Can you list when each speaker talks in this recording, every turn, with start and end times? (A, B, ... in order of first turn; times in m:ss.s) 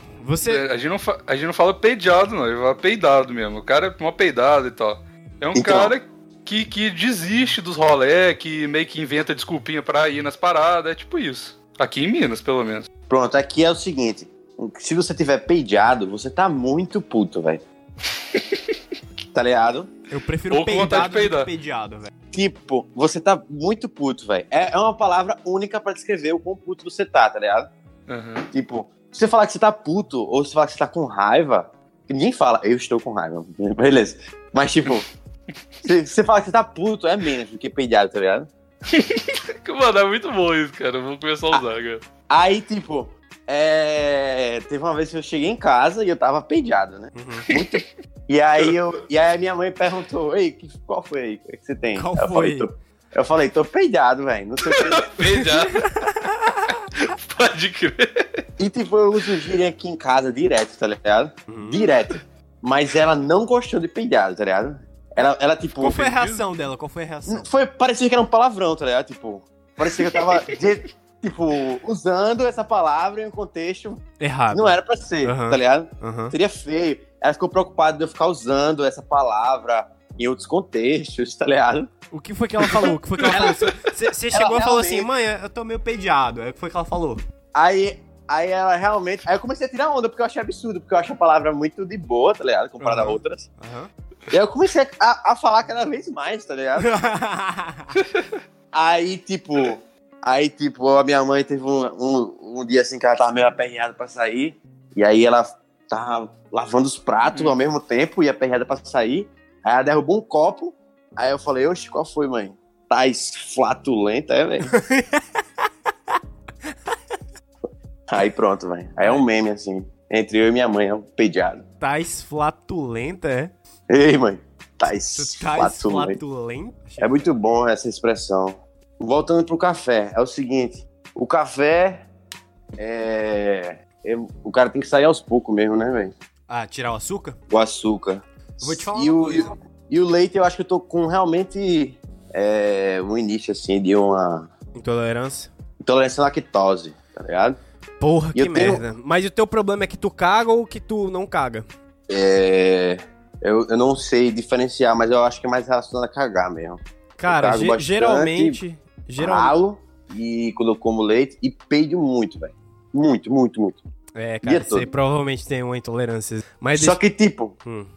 0:00.2-0:00.6 A
0:00.4-0:12.9 B
0:05.5-0:05.9 C
0:13.1-0:17.6 C
0:19.3-0:19.9 C
0:20.1-0:22.1 A
0:20.5-0:21.5 B
0:22.3-0:27.7 C
0:28.1-0:28.5 B
0:28.5-0:35.0 C
0:35.8-0:38.5 C
0:38.9-0:42.0 B
0:42.3-0:55.2 C
0:47.1-0:47.5 A
0:47.5-0:47.8 B
0:51.9-0:52.7 A
0:54.6-0:56.0 B
0:55.3-0:56.7 A
0:56.9-0:58.4 B
0:58.6-1:06.1 C
1:01.5-1:01.8 A
1:05.8-1:07.5 A
1:06.0-1:06.4 B
1:07.3-1:21.9 C
1:14.2-1:16.3 A
1:22.1-1:27.2 A
1:23.3-1:23.7 B
1:23.3-1:23.6 C
1:24.3-1:25.1 C
1:27.5-1:33.5 C
1:32.8-1:33.9 A
1:34.3-1:36.9 C
1:36.8-1:37.9 A
1:38.0-1:38.2 B
1:38.7-1:54.7 C
1:54.7-1:55.2 A
1:58.1-2:01.6 C
2:01.8-2:03.5 A
2:03.9-2:06.2 C
2:05.1-2:07.3 A
2:07.0-2:12.0 C
2:12.8-2:16.1 C
2:16.5-2:17.4 A
2:17.5-2:24.5 C
2:18.6-2:19.5 A
2:24.8-2:25.5 A
2:25.8-2:27.6 C
2:28.0-2:31.7 A
2:28.3-2:28.8 C
2:32.1-2:38.6 C
2:37.2-2:39.6 A
2:39.2-2:43.8 C
2:44.1-2:47.0 A
2:44.4-2:44.9 C
2:46.7-2:47.6 C